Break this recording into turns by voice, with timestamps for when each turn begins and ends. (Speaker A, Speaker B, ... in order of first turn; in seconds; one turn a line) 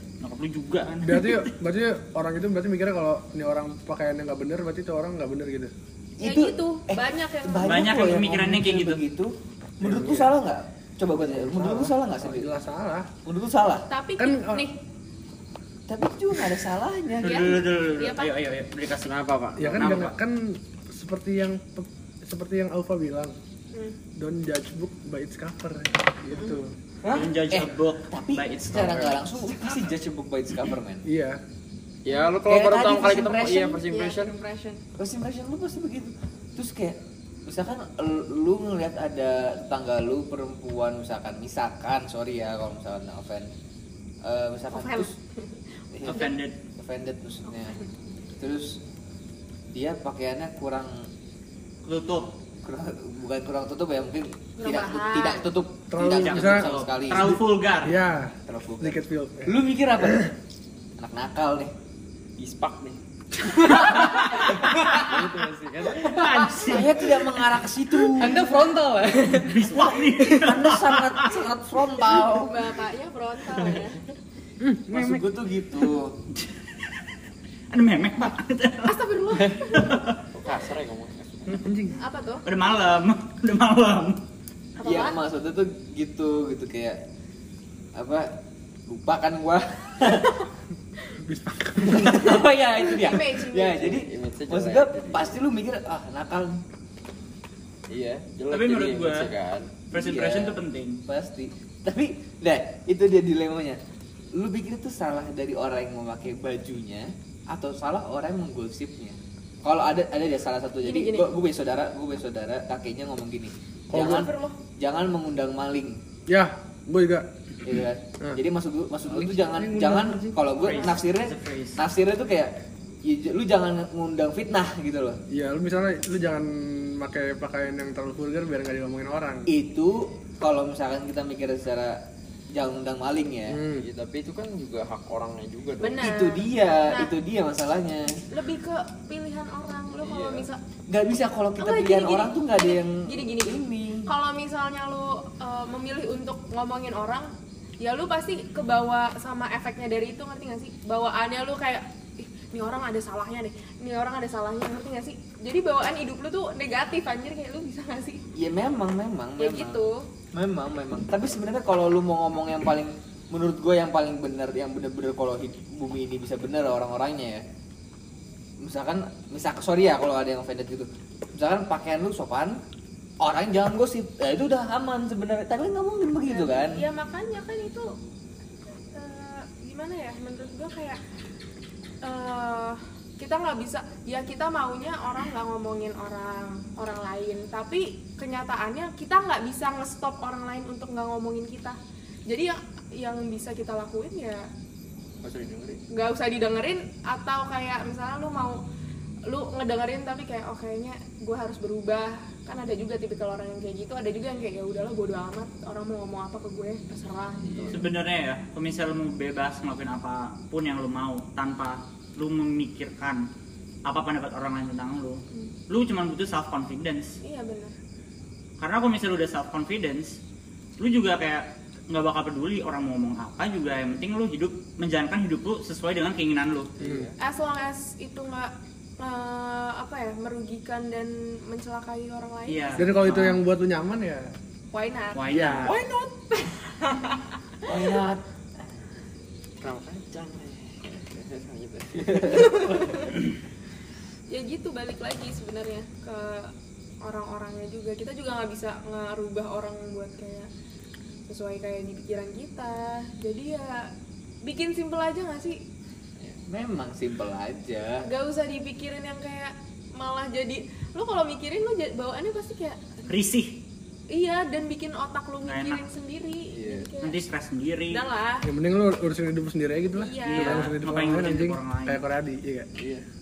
Speaker A: 0.2-1.5
Speaker B: 1.0-5.7
Speaker C: 6.2-12.5
Speaker D: 6.2-8.0
Speaker A: 7.6-9.0
Speaker B: 9.8-10.3
Speaker B: 11.1-13.1
Speaker C: 13.2-13.8
Speaker D: 13.9-14.8
Speaker B: 14.2-14.6
Speaker C: 15.9-17.6
Speaker D: 17.2-18.3
Speaker A: 17.2-20.1
Speaker E: 19.0-19.9
Speaker B: 19.6-23.4
Speaker B: 24.2-26.7
Speaker D: 26.3-26.6
Speaker C: 27.1-31.0
Speaker A: 27.1-28.8
Speaker E: 28.8-29.1
Speaker B: 31.0-31.4
Speaker E: 32.0-34.3
Speaker C: 32.5-33.8
Speaker D: 33.8-34.8
Speaker C: 35.0-43.5
Speaker C: 44.2-45.1
Speaker D: 44.7-46.3
Speaker C: 45.9-47.8
Speaker A: 46.0-46.5
Speaker D: 47.5-47.9
Speaker C: 48.4-48.8
Speaker C: 49.7-51.1
Speaker A: 51.8-52.3
Speaker C: 52.6-57.4
Speaker D: 54.6-55.5
Speaker B: 55.9-60.3
Speaker A: 56.1-57.9
Speaker C: 58.5-60.3
Speaker C: 61.0-61.7
Speaker E: 62.4-63.0
Speaker F: 63.6-64.1
Speaker C: 64.0-65.3
Speaker A: 64.9-65.2
Speaker E: 64.9-66.2
Speaker C: 65.8-68.5
Speaker A: 66.0-67.0
Speaker F: 66.4-66.7
Speaker F: 68.1-69.7
Speaker A: 69.4-71.4
Speaker C: 70.2-72.5
Speaker D: 72.0-74.0
Speaker B: 74.6-75.3
Speaker C: 74.9-76.2
Speaker A: 76.3-77.0
Speaker A: 77.7-79.0
Speaker D: 78.8-80.0
Speaker A: 79.7-80.2
Speaker E: 80.3-81.6
Speaker B: 81.5-82.0
Speaker D: 82.0-82.4
Speaker A: 82.5-84.2
Speaker D: 84.8-85.2
Speaker C: 84.8-87.0
Speaker C: 88.0-88.3
Speaker C: 88.9-90.3
Speaker B: 91.2-92.4
Speaker C: 91.8-96.6
Speaker D: 93.0-94.0
Speaker E: 93.8-95.3
Speaker E: 97.9-99.8
Speaker A: 98.5-99.3
Speaker A: 99.9-101.0
Speaker C: 99.9-103.8
Speaker C: 104.3-116.0
Speaker D: 110.8-111.3
Speaker B: 113.9-114.3
Speaker D: 114.0-114.6
Speaker B: 116.3-117.2
Speaker C: 117.6-122.5
Speaker B: 119.1-120.5
Speaker A: 120.6-121.8
Speaker C: 123.0-125.2
Speaker B: 125.3-129.5
Speaker C: 129.5-132.0
Speaker C: 132.5-133.6
Speaker B: 133.5-133.8
Speaker E: 133.8-136.0
Speaker D: 135.8-137.1
Speaker C: 136.0-138.2
Speaker D: 138.3-140.6
Speaker E: 140.0-140.5
Speaker C: 140.9-144.1
Speaker D: 141.6-147.3
Speaker D: 147.8-158.2
Speaker C: 158.3-159.8
Speaker D: 159.4-160.0
Speaker C: 160.3-167.4
Speaker C: 168.6-172.6
Speaker C: 173.2-176.8
Speaker D: 176.3-177.9
Speaker D: 178.9-181.0
Speaker D: 182.0-191.8
Speaker D: 192.3-194.5
Speaker E: 195.2-195.8
Speaker D: 195.9-198.6
Speaker D: 199.3-207.8
Speaker A: 207.7-213.2
Speaker A: 213.8-217.2
Speaker D: 217.2-217.7
Speaker A: 218.6-220.2
Speaker A: 220.8-226.7
Speaker E: 226.8-227.1
Speaker B: 226.8-227.1
Speaker D: 227.2-233.0
Speaker A: 232.5-233.4
Speaker B: 232.8-234.3
Speaker D: 234.7-237.9
Speaker A: 235.2-235.7
Speaker B: 235.3-235.7
Speaker C: 237.7-238.2
Speaker E: 239.6-242.8
Speaker C: 242.0-242.6
Speaker D: 242.3-243.1
Speaker D: 244.3-246.5
Speaker D: 247.0-250.5
Speaker D: 251.3-253.9
Speaker D: 254.4-255.6
Speaker C: 256.4-258.0
Speaker D: 258.0-263.0
Speaker A: 263.1-263.6
Speaker D: 264.1-267.1
Speaker A: 265.4-265.8
Speaker C: 266.5-266.9
Speaker A: 267.0-268.0
Speaker D: 267.9-268.4
Speaker B: 268.4-272.7
Speaker D: 269.9-270.7
Speaker A: 270.3-272.0